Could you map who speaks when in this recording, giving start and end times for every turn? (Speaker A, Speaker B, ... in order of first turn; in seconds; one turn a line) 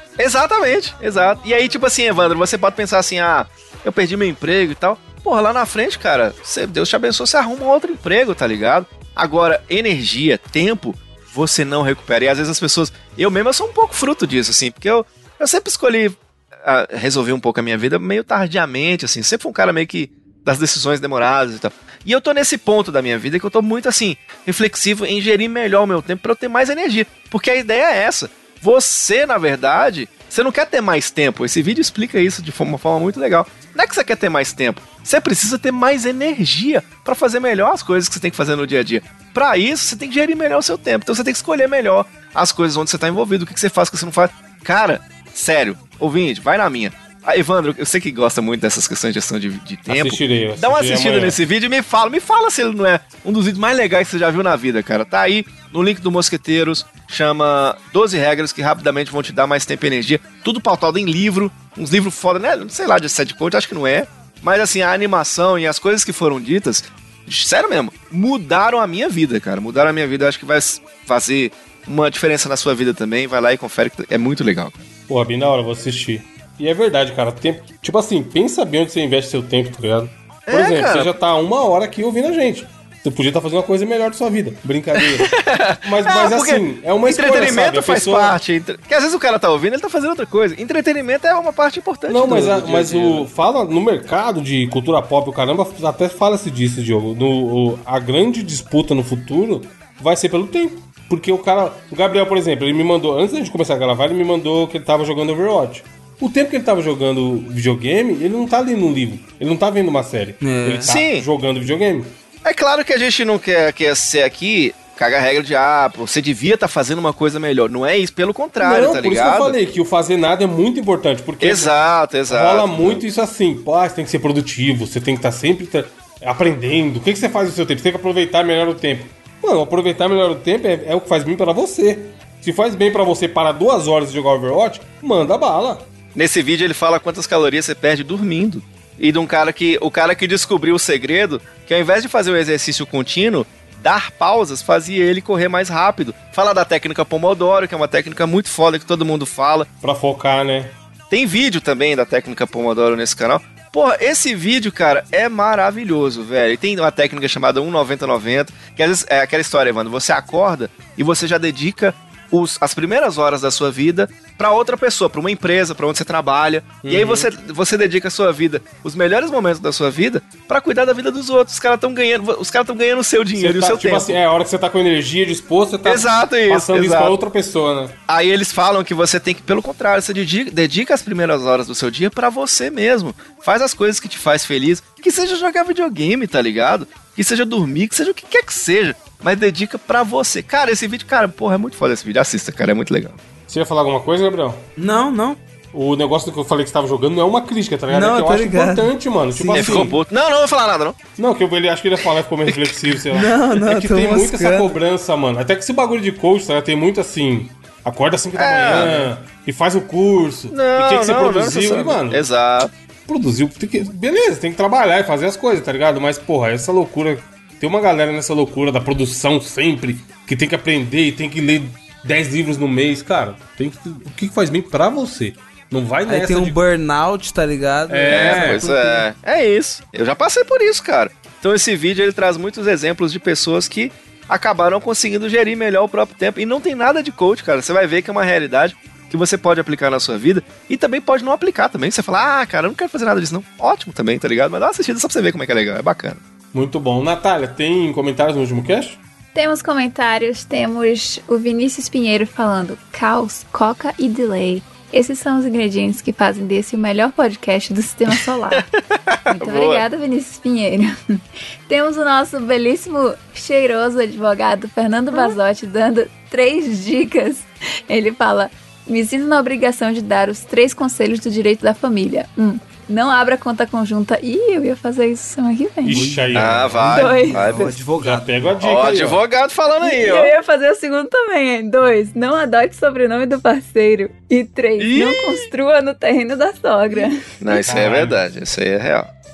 Speaker A: 0.2-74.8
Speaker B: 49.9-51.4
Speaker B: 75.1-88.4
Speaker A: 80.5-81.1
Speaker A: 85.0-93.3
Speaker B: 92.1-112.2
Speaker C: 110.4-110.9
Speaker A: 110.9-111.3
Speaker A: 112.4-119.6
Speaker B: 118.6-121.7
Speaker A: 121.4-123.0
Speaker B: 122.3-135.9
Speaker A: 136.1-149.7
Speaker B: 149.8-150.8
Speaker A: 151.1-174.2
Speaker B: 166.8-167.3
Speaker B: 173.4-177.9
Speaker A: 175.8-177.2
Speaker A: 178.1-193.2
Speaker B: 193.5-194.6
Speaker C: 194.8-195.4
Speaker B: 195.7-200.0
Speaker C: 197.9-199.9
Speaker A: 199.5-201.0
Speaker B: 201.2-212.2
Speaker A: 202.5-202.7
Speaker C: 203.1-204.8
Speaker A: 208.3-209.1
Speaker A: 210.5-212.7
Speaker B: 213.1-226.6
Speaker C: 226.0-229.0
Speaker B: 227.9-228.6
Speaker A: 228.1-246.2
Speaker B: 246.5-249.0
Speaker D: 249.3-258.6
Speaker A: 258.5-259.8
Speaker D: 259.3-276.1
Speaker B: 275.8-277.1
Speaker C: 275.9-278.6
Speaker A: 276.3-277.7
Speaker D: 276.8-277.8
Speaker B: 277.9-279.2
Speaker A: 278.6-280.4
Speaker D: 279.8-287.6
Speaker A: 284.8-285.5
Speaker A: 287.4-289.1
Speaker B: 287.7-288.2